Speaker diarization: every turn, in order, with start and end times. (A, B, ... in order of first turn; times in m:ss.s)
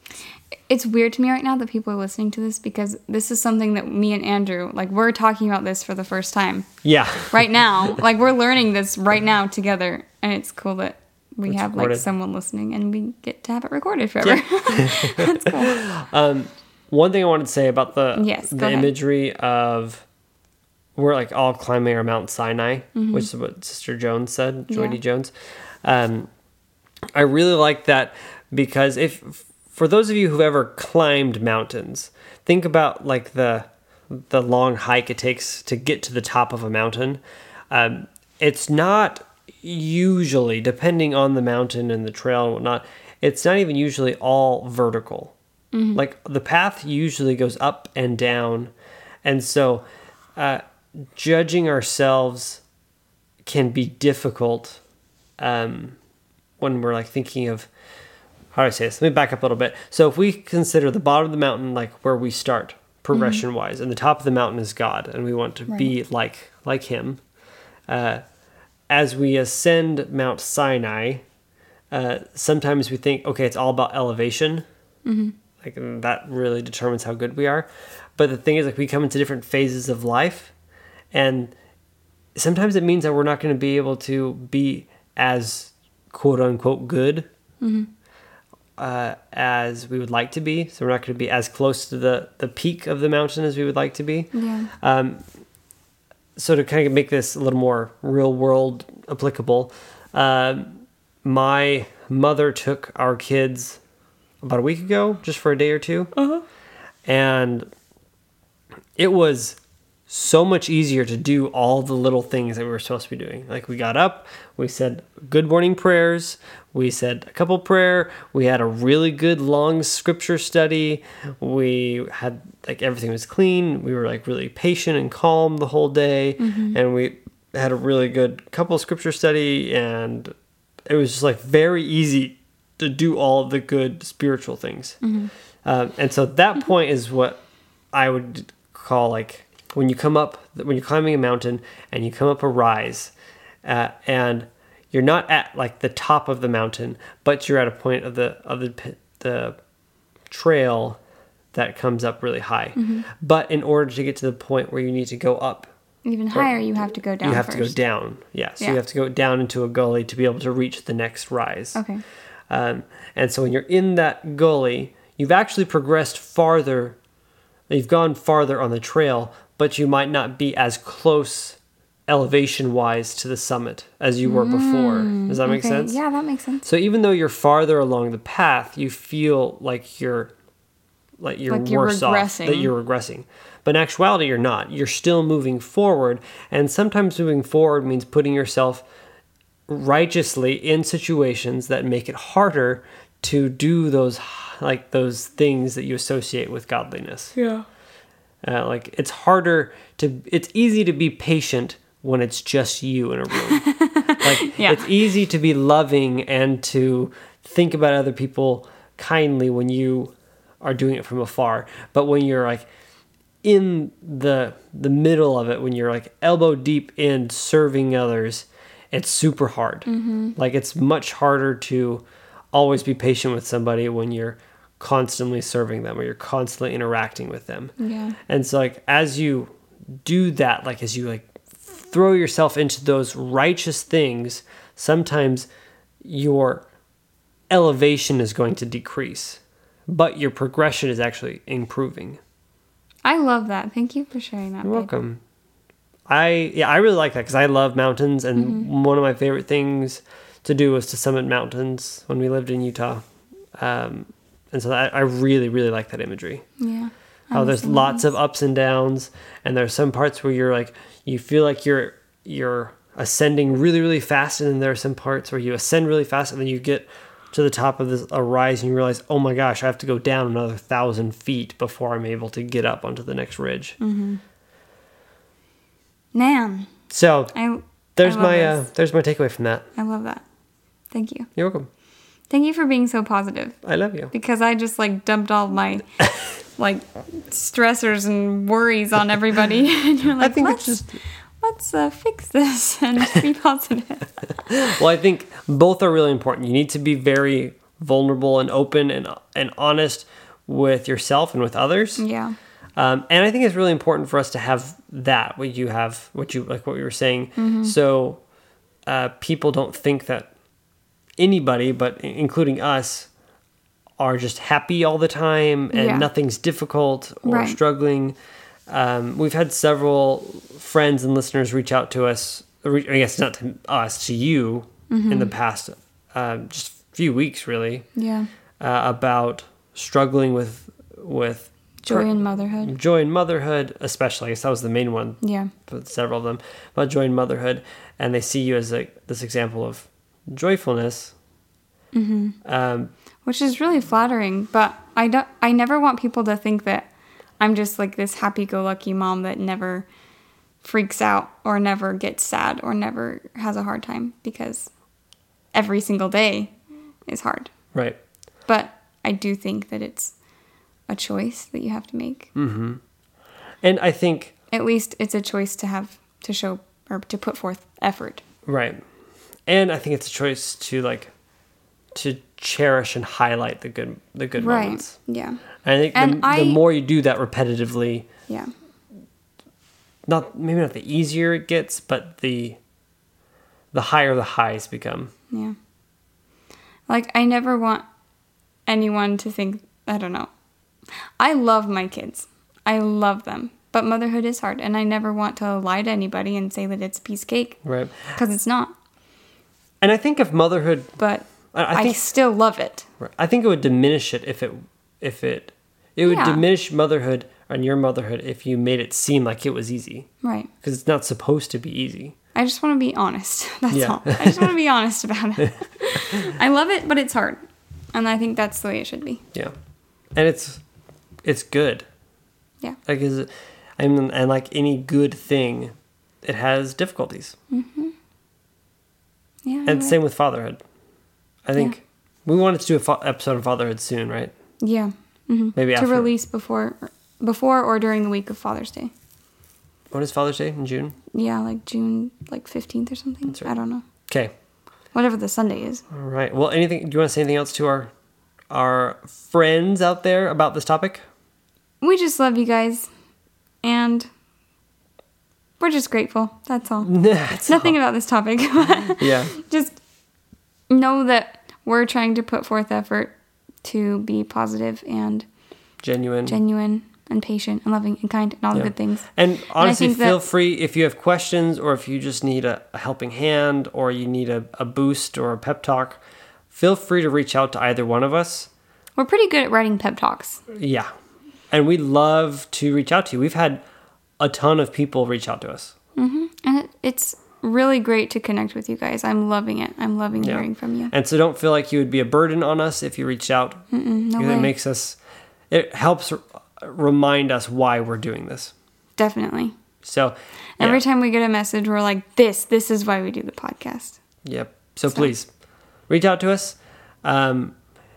0:00.7-0:06.7 A
0:06.8-0:07.6 B
0:07.3-0:15.8 A
0:11.4-0:12.0 B
0:14.2-0:20.0 B
0:18.1-0:18.9 A
0:21.0-0:25.3 B
0:22.9-0:23.3 A
0:24.7-0:25.0 A
0:25.8-0:26.3 B
0:27.1-0:45.3 B
0:45.7-0:46.0 A
0:45.9-0:48.7 B
0:49.2-0:49.8 B
0:50.4-0:50.6 B
0:51.1-0:52.6 B
0:53.4-0:54.8 B
0:55.4-0:56.0 B
0:56.6-0:57.7 B
0:58.5-1:07.2 B
1:03.1-1:03.4 A
1:07.9-1:08.2 B
1:08.9-1:11.2 B
1:11.9-1:14.6 B
1:15.0-1:15.3 A
1:15.6-1:20.5 B
1:21.1-1:21.5 B
1:22.3-1:27.3 B
1:27.6-1:27.9 A
1:28.8-1:35.2 B
1:34.3-1:34.7 A
1:36.4-1:43.8 B
1:44.4-1:46.1 B
1:46.2-1:46.4 A
1:47.0-1:47.7 B
1:49.0-2:10.3 B
2:06.4-2:06.8 A
2:10.8-2:15.0 B
2:15.0-2:15.3 A
2:15.6-2:17.4 B
2:17.9-2:23.1 B
2:23.6-2:29.5 B
2:30.3-2:31.0 B
2:31.5-2:35.7 B
2:32.8-2:33.1 A
2:36.0-2:37.8 A
2:36.3-2:36.6 B
2:37.2-2:41.8 B
2:41.7-2:42.0 A
2:42.5-2:47.0 B
2:47.7-2:56.0 B
2:54.2-2:56.6 A
2:56.6-3:00.3 B
3:01.2-3:08.8 B
3:01.5-3:02.7 A
3:09.7-3:17.3 B
3:17.3-3:17.6 A
3:18.4-3:23.6 B
3:23.5-3:25.1 A
3:24.2-3:32.7 B
3:33.4-3:47.7 B
3:39.9-3:40.3 A
3:47.8-3:48.2 A
3:48.3-3:49.5 B
3:50.0-3:55.5 B
3:56.0-3:56.6 B
3:57.5-4:02.2 B
4:03.0-4:04.9 A
4:04.6-4:05.2 B
4:06.1-4:13.0 B
4:08.4-4:08.7 A
4:13.6-4:16.4 B
4:16.6-4:18.1 A
4:17.3-4:33.8 B
4:33.8-4:34.2 A
4:36.1-4:36.7 A
4:36.9-4:37.3 B
4:37.3-4:38.6 A
4:38.0-4:39.7 B
4:39.8-4:40.2 A
4:40.9-4:41.3 A
4:41.4-4:41.7 B
4:42.3-4:43.6 A
4:43.6-4:44.1 B
4:44.1-4:46.0 A
4:46.6-4:50.8 A
4:50.2-4:51.0 B
4:51.4-4:54.3 A
4:54.5-5:02.0 B
5:02.0-5:02.3 A
5:02.8-5:08.2 B
5:07.4-5:07.7 A
5:08.8-5:10.3 B
5:11.2-5:13.1 B
5:14.0-5:18.1 B
5:15.7-5:16.1 A
5:17.2-5:17.6 A
5:18.7-5:27.8 B
5:24.9-5:25.3 A
5:28.0-5:28.3 A
5:28.6-5:41.1 B
5:31.8-5:32.7 A
5:35.2-5:35.5 A
5:41.9-5:42.4 A
5:42.4-5:42.9 B
5:43.2-5:46.9 A
5:47.4-5:49.9 A
5:50.6-5:54.7 A
5:55.5-5:56.5 A
5:57.1-5:57.5 A
5:58.5-6:00.1 A
6:00.9-6:02.3 A
6:02.3-6:02.8 B
6:03.6-6:04.3 B
6:04.5-6:08.2 A
6:08.4-6:08.8 B
6:09.5-6:11.1 B
6:11.9-6:14.9 B
6:14.4-6:15.4 A
6:15.6-6:18.1 B
6:15.9-6:16.6 A
6:20.0-6:22.6 B
6:23.7-6:25.1 B
6:26.9-6:27.8 A
6:28.7-6:30.3 A
6:31.2-6:37.6 A
6:37.6-6:38.1 B
6:38.1-6:38.7 A
6:39.8-6:40.9 B
6:41.0-6:42.9 A
6:41.5-6:42.1 B
6:43.0-6:50.1 B
6:46.0-6:46.4 A
6:50.2-6:50.5 A
6:50.6-6:52.2 B
6:52.3-6:57.4 A
6:53.7-6:54.5 B
6:57.9-6:59.2 A
7:00.1-7:00.6 B
7:01.2-7:01.8 B
7:02.8-7:07.4 B
7:07.5-7:07.9 A
7:09.4-7:10.0 A
7:09.6-7:10.6 B
7:11.4-7:14.3 B
7:14.6-7:18.9 A
7:15.6-7:16.1 B
7:19.9-7:21.0 B
7:21.1-7:23.8 A
7:23.3-7:23.6 B
7:24.1-7:24.3 B
7:24.9-7:25.8 A
7:25.9-7:27.9 B
7:28.5-7:31.0 B
7:31.8-7:32.9 A
7:33.6-7:34.1 A
7:35.6-7:36.9 A
7:36.8-7:37.7 B
7:37.4-7:39.8 A
7:39.0-7:39.3 B
7:40.7-7:43.1 A
7:43.6-7:45.2 A
7:45.8-7:46.4 B
7:46.2-7:49.1 A
7:48.5-7:58.5 B
7:49.6-7:50.2 A
7:59.0-8:00.4 A
8:00.5-8:00.9 B
8:01.5-8:03.6 B
8:04.2-8:05.7 B
8:06.0-8:10.9 A
8:10.2-8:13.6 B
8:13.7-8:14.5 A
8:14.2-8:15.0 B
8:15.5-8:18.5 B
8:19.0-8:19.5 A
8:19.8-8:20.8 B
8:20.6-8:24.0 A
8:24.2-8:25.3 B
8:25.9-8:27.5 B